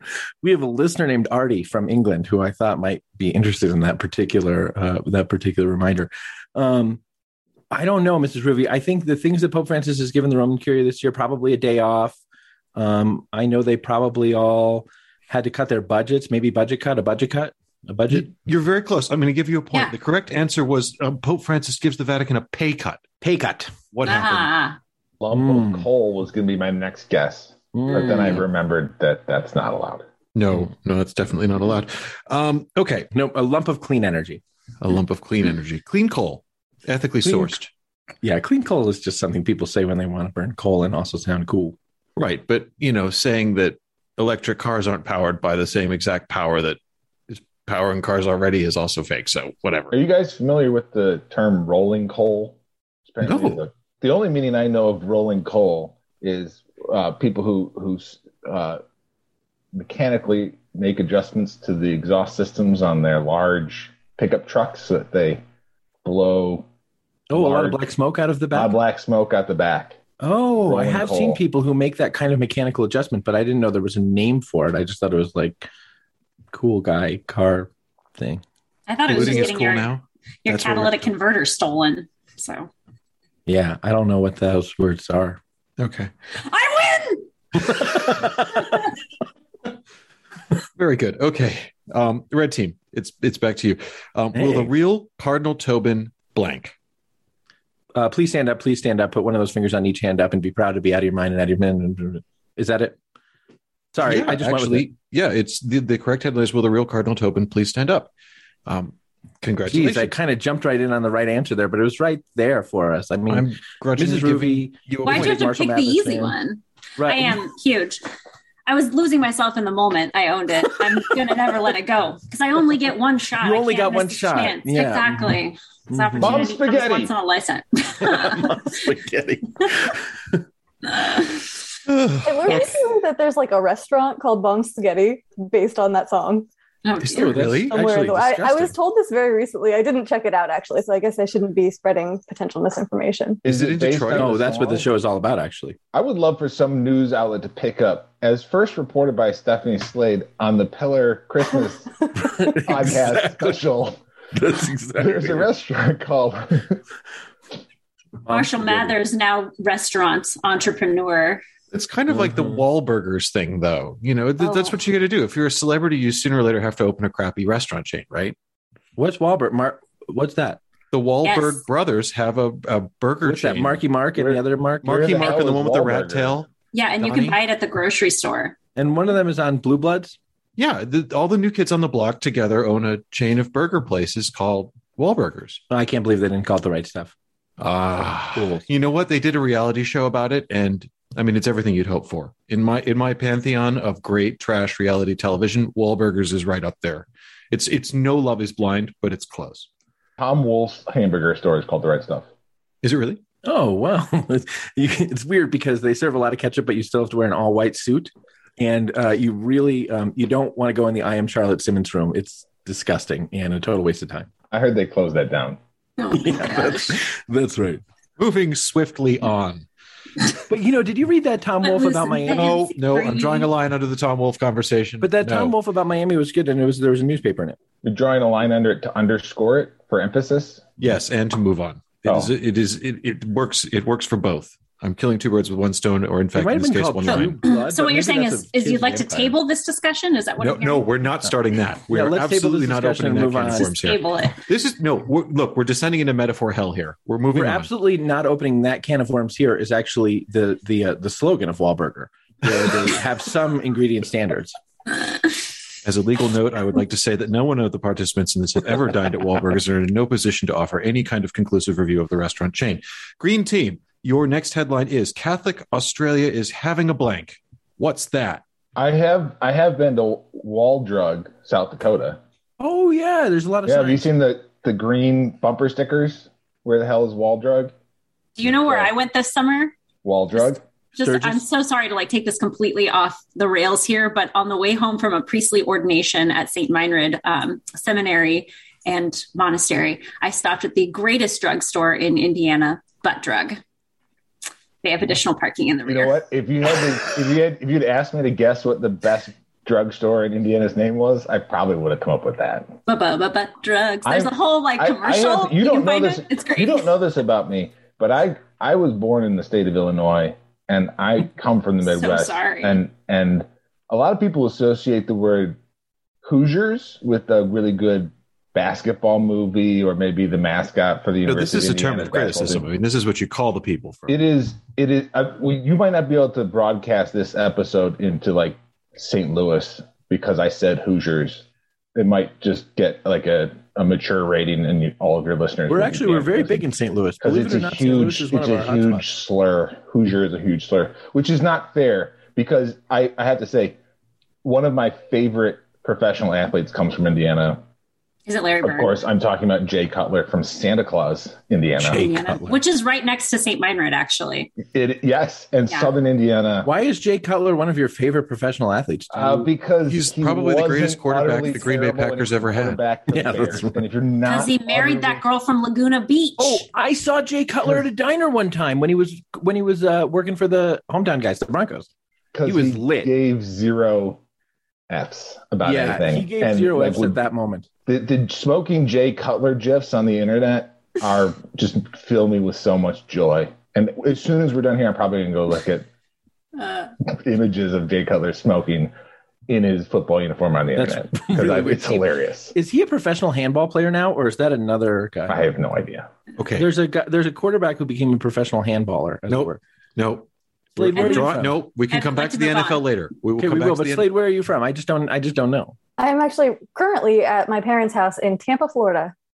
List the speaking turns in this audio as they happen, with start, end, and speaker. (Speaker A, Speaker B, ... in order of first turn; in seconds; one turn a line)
Speaker A: 0.4-7.0
Speaker A: 7.7-12.2
Speaker A: 12.7-18.3
Speaker B: 18.1-23.0
Speaker A: 23.2-23.7
Speaker B: 23.9-24.5
Speaker C: 24.0-24.8
Speaker D: 25.2-30.0
Speaker A: 25.3-25.9
Speaker A: 27.7-28.4
Speaker B: 30.3-33.1
Speaker A: 33.1-34.4
Speaker B: 34.8-37.7
Speaker A: 37.2-37.5
Speaker A: 38.2-41.8
Speaker B: 42.2-49.9
Speaker D: 49.9-58.8
Speaker B: 53.2-53.6
Speaker D: 59.7-65.4
Speaker D: 66.0-66.7
Speaker A: 67.3-68.7
Speaker D: 67.3-67.8
Speaker D: 68.5-70.0
Speaker A: 70.2-75.7
Speaker D: 70.6-71.4
Speaker A: 76.5-78.4
Speaker C: 78.9-79.9
Speaker B: 79.1-81.1
Speaker C: 80.4-82.7
Speaker A: 83.5-85.4
Speaker B: 85.8-86.1
Speaker C: 86.4-87.3
Speaker A: 87.6-88.8
Speaker B: 90.8-96.7
Speaker A: 94.3-94.7
Speaker A: 97.9-103.0
Speaker A: 103.9-104.9
Speaker B: 104.0-108.1
Speaker B: 108.7-110.1
Speaker A: 109.7-116.3
Speaker B: 113.3-115.5
Speaker C: 115.0-118.0
Speaker A: 117.0-117.4
Speaker C: 118.7-128.6
Speaker A: 123.4-125.3
Speaker A: 125.9-126.4
Speaker D: 126.2-127.1
Speaker A: 128.0-130.4
Speaker C: 130.9-131.4
Speaker B: 131.9-132.7
Speaker E: 132.2-136.5
Speaker C: 136.8-137.3
Speaker B: 137.0-137.8
Speaker A: 137.1-138.7
Speaker E: 137.7-143.4
Speaker B: 143.4-144.4
Speaker D: 143.4-144.9
Speaker A: 144.1-145.8
Speaker D: 145.9-152.0
Speaker A: 152.2-153.6
Speaker D: 152.5-154.0
Speaker A: 154.3-155.5
Speaker D: 155.0-156.8
Speaker A: 158.2-158.9
Speaker C: 158.3-161.4
Speaker B: 161.7-168.3
Speaker A: 162.1-162.6
Speaker C: 164.4-164.7
Speaker A: 168.9-170.6
Speaker B: 170.9-173.8
Speaker C: 171.2-171.6
Speaker A: 173.2-175.3
Speaker D: 174.2-176.4
Speaker B: 174.8-176.5
Speaker C: 176.7-178.6
Speaker B: 177.0-177.4
Speaker A: 178.7-180.2
Speaker B: 180.6-185.6
Speaker A: 185.7-187.1
Speaker B: 187.6-199.7
Speaker A: 188.3-188.6
Speaker D: 200.2-202.3
Speaker B: 202.8-203.2
Speaker A: 203.4-214.3
Speaker D: 214.5-215.6
Speaker C: 216.0-217.0
Speaker A: 216.1-217.8
Speaker B: 218.2-219.7
Speaker A: 220.5-222.6
Speaker C: 221.6-223.5
Speaker B: 222.3-225.5
Speaker A: 225.0-227.6
Speaker D: 227.8-230.6
Speaker B: 230.8-237.4
Speaker D: 232.0-232.3
Speaker A: 236.3-239.3
Speaker C: 237.0-240.9
Speaker B: 240.4-247.7
Speaker A: 241.9-243.7
Speaker C: 243.6-244.4
Speaker A: 247.3-254.5
Speaker B: 255.8-268.4
Speaker D: 268.8-272.2
Speaker A: 272.6-274.0
Speaker D: 273.6-277.7
Speaker C: 278.4-279.7
Speaker D: 278.4-278.9
Speaker D: 280.0-280.6
Speaker C: 280.3-293.6
Speaker A: 281.0-281.4
Speaker C: 294.8-296.2
Speaker D: 295.8-302.8
Speaker C: 302.9-306.9
Speaker D: 304.0-315.6
Speaker C: 311.9-312.8
Speaker D: 316.2-322.7
Speaker B: 321.2-324.1
Speaker D: 324.1-336.7
Speaker A: 335.7-339.0
Speaker D: 337.2-343.8
Speaker D: 344.4-347.6
Speaker C: 348.2-348.9
Speaker D: 348.6-352.1
Speaker A: 351.8-352.6
Speaker C: 351.9-354.5
Speaker D: 354.7-356.7
Speaker A: 356.6-359.5
Speaker D: 359.1-365.2
Speaker B: 359.9-362.8
Speaker A: 363.1-363.8
Speaker C: 364.2-366.7
Speaker A: 366.4-371.9
Speaker D: 372.3-374.2
Speaker A: 372.4-373.1
Speaker D: 374.9-377.2
Speaker A: 375.6-377.7
Speaker D: 377.9-385.9
Speaker C: 386.6-386.9
Speaker D: 387.1-388.9
Speaker D: 389.5-392.5
Speaker A: 390.8-395.4
Speaker D: 395.3-396.1
Speaker B: 396.4-396.7
Speaker A: 396.6-399.6
Speaker B: 399.3-404.1
Speaker A: 400.8-401.5
Speaker C: 400.9-401.3
Speaker C: 401.9-402.8
Speaker A: 403.4-405.8
Speaker E: 406.0-409.1